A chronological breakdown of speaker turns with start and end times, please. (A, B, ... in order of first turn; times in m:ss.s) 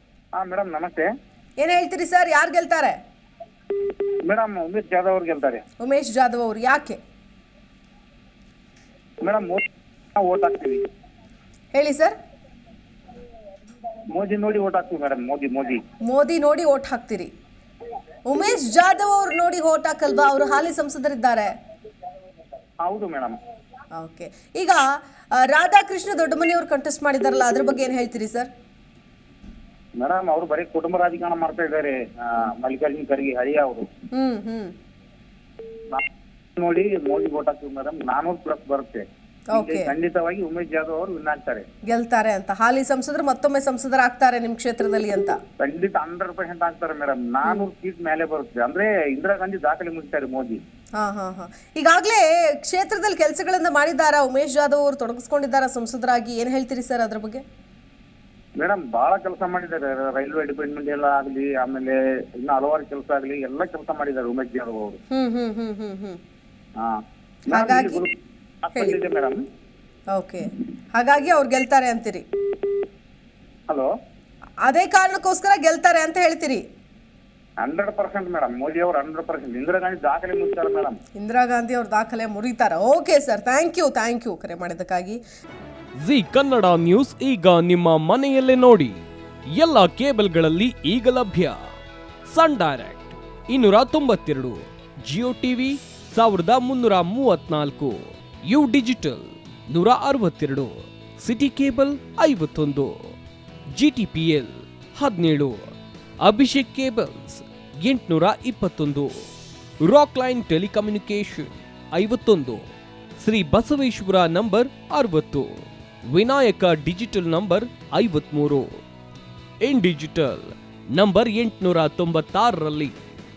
0:00.3-0:01.0 A
0:01.6-0:03.0 B
0:04.2-0:05.6 A
0:05.8-0:07.0 B
0:09.2-0:09.6 A
0:10.1-0:10.8 A
0:11.7-0:12.1 B
0:14.1-0:15.8 A
0:16.0-0:17.3 B
0:18.3-0:21.5 B
0:22.8-0:23.3 A
0:23.9-0:28.5 B
0:30.0-0:33.8 A
0:34.1-0:34.7 B
0:36.6-0:41.6 A
0:39.5-0:39.9 B
0:41.9-0:45.4 B
0:45.6-0:50.6 A
0:51.0-0:57.4 B
0:58.6-1:05.0 A
1:05.1-1:06.2 B
1:07.5-1:08.1 A
1:07.5-1:08.0 B
1:08.6-1:09.4 A
1:10.1-1:12.2 B
1:14.6-1:16.6 B
1:17.6-1:21.0 A
1:21.2-1:25.2 B
1:26.0-1:29.0 C
1:29.5-1:31.6 C
1:32.3-1:43.1 C
1:43.7-1:45.7 C
1:46.2-1:49.2 C
1:49.8-1:52.6 C
1:53.2-1:58.7 C
1:59.6-2:02.9 C